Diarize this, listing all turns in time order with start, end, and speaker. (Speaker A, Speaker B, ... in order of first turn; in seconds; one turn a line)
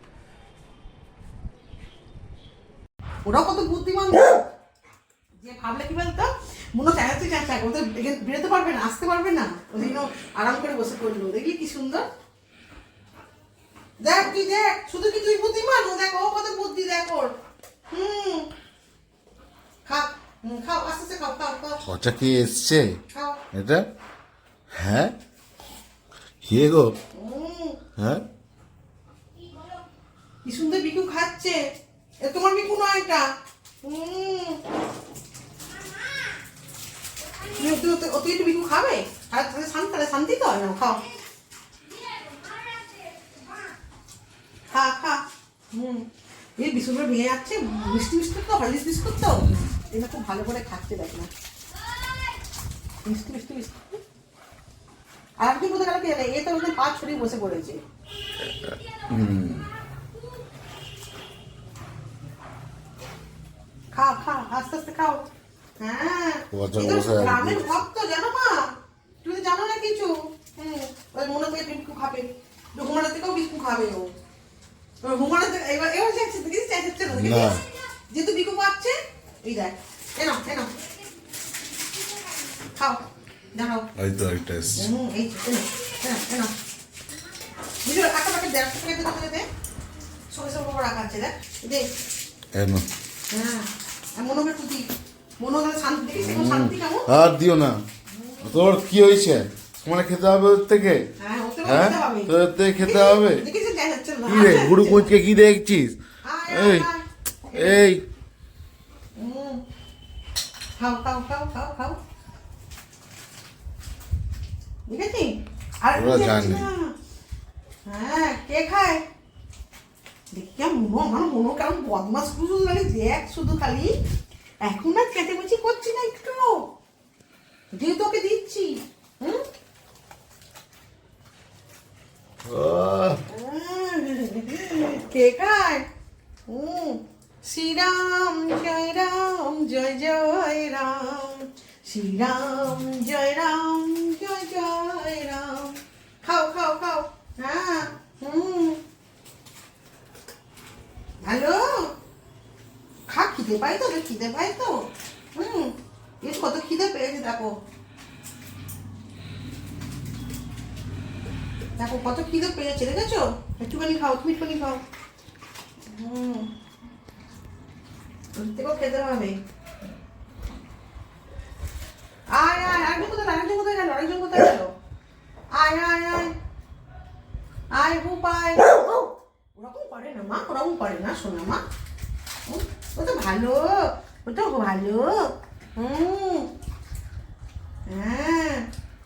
Speaker A: 3.2-4.4
Speaker A: 5.4-12.1
Speaker A: 14.0-17.3
Speaker A: 17.9-18.5
Speaker A: 19.9-21.8
Speaker B: 21.8-23.0
Speaker A: 23.1-23.4
Speaker B: 23.5-23.9
Speaker B: 24.7-25.1
Speaker B: 26.4-26.9
Speaker A: 27.1-27.8
Speaker B: 27.9-28.2
Speaker A: 30.4-31.6
Speaker A: 32.2-33.3
Speaker A: 33.8-34.6
Speaker A: 37.6-41.0
Speaker A: 44.7-45.2
Speaker A: 45.7-46.0
Speaker A: 46.6-51.3
Speaker B: 49.4-49.7
Speaker A: 53.0-53.8
Speaker A: 55.4-57.8
Speaker B: 58.4-59.7
Speaker A: 63.9-65.2
Speaker A: 65.8-68.7
Speaker B: 66.5-67.7
Speaker A: 69.2-74.1
Speaker A: 75.0-80.7
Speaker B: 77.1-77.6
Speaker A: 82.8-83.0
Speaker A: 83.5-83.9
Speaker B: 84.0-84.9
Speaker A: 84.8-86.5
Speaker A: 87.8-89.4
Speaker A: 90.3-91.8
Speaker B: 92.5-92.8
Speaker A: 93.3-94.8
Speaker A: 95.4-97.1
Speaker B: 96.2-97.8
Speaker A: 98.1-98.6
Speaker B: 98.4-101.1
Speaker A: 101.2-105.1
Speaker B: 101.6-103.4
Speaker B: 104.3-106.9
Speaker A: 106.2-107.8
Speaker B: 107.5-108.0
Speaker A: 109.2-109.6
Speaker A: 110.8-112.0
Speaker A: 114.9-116.9
Speaker B: 115.9-116.7
Speaker A: 117.8-119.0
Speaker A: 120.3-123.9
Speaker A: 124.6-126.6
Speaker A: 127.7-129.4
Speaker B: 132.4-133.2
Speaker A: 133.3-135.8
Speaker A: 136.5-148.8
Speaker A: 151.2-151.9
Speaker A: 153.1-154.8
Speaker A: 155.3-157.5
Speaker A: 161.8-164.8
Speaker A: 165.9-166.5
Speaker A: 168.3-169.4
Speaker A: 172.3-174.7
Speaker A: 175.5-176.3
Speaker A: 177.7-181.6
Speaker A: 182.5-186.5
Speaker A: 187.9-188.7